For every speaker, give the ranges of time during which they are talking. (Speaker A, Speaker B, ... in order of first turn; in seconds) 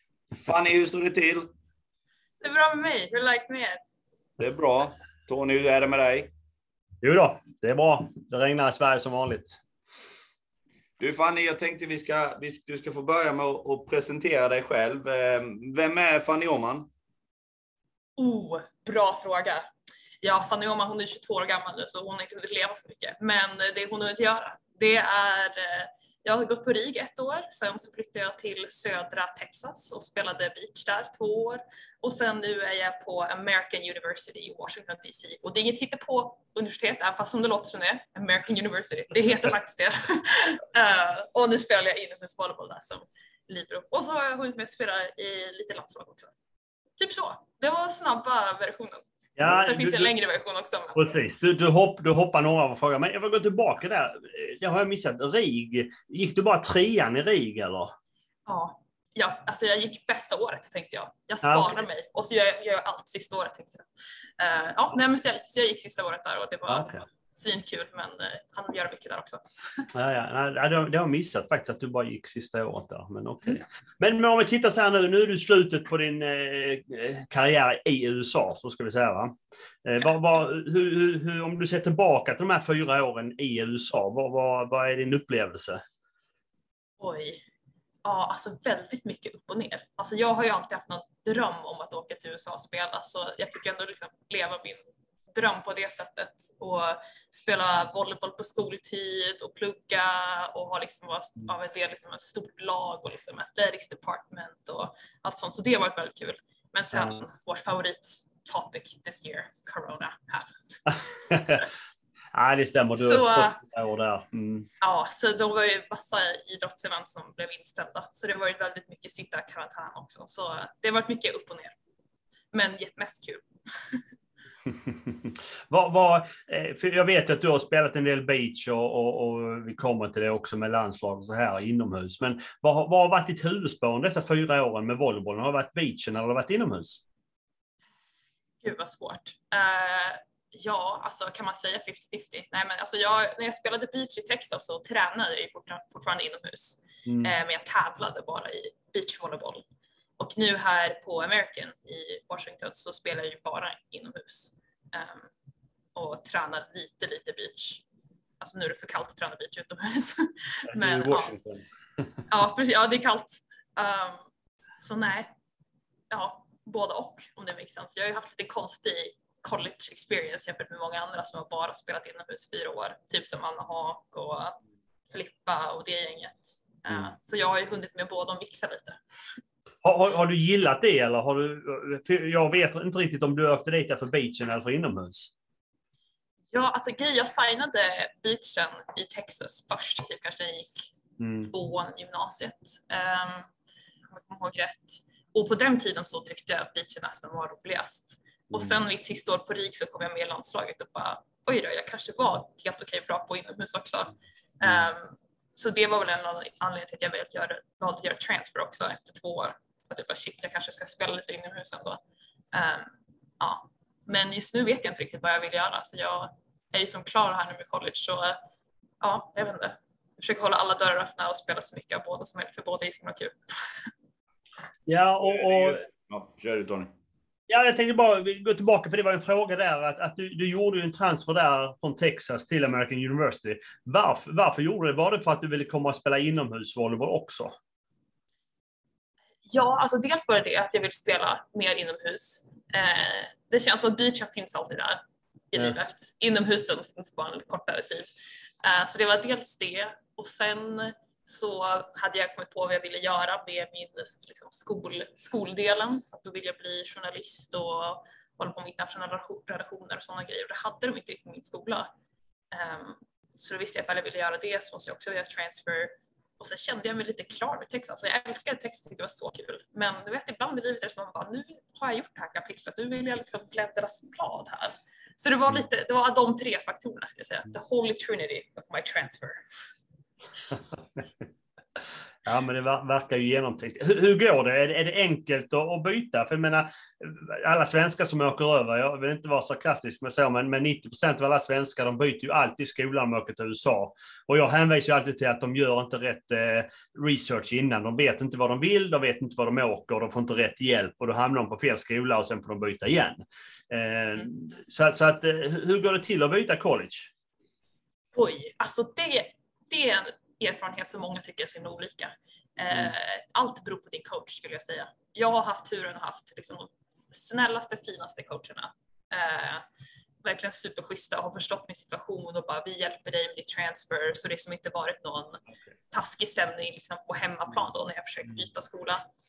Speaker A: 0.3-1.5, 4.4-6.3, 11.0-16.9, 225.2-226.9
Speaker B: 2.4-3.8, 18.2-19.7, 20.2-46.3, 47.0-51.1, 58.5-63.9, 64.4-69.9, 87.0-87.4, 88.0-111.0, 113.0-113.6, 114.8-121.8, 122.5-124.0, 138.6-149.7, 150.2-155.3, 156.0-157.8, 158.4-161.3, 162.3-164.2, 164.8-165.3, 166.1-174.6, 175.1-179.0, 186.5-190.9, 191.4-193.5, 194.1-212.0, 212.5-218.4, 219.0-223.3, 239.5-245.0, 245.5-248.1, 248.6-261.9, 262.5-279.4, 308.1-319.6, 320.2-329.0
Speaker C: 7.0-9.6, 49.4-50.1, 51.0-58.0, 61.4-61.8, 66.7-67.0, 69.9-79.3, 79.8-85.8, 106.9-107.2, 111.3-111.7, 112.3-114.7, 124.8-137.0, 147.1-147.4, 160.7-161.7, 179.8-185.3, 191.2-191.5, 198.5-198.8, 204.6-204.9, 224.9-225.8, 227.5-237.6, 282.2-307.1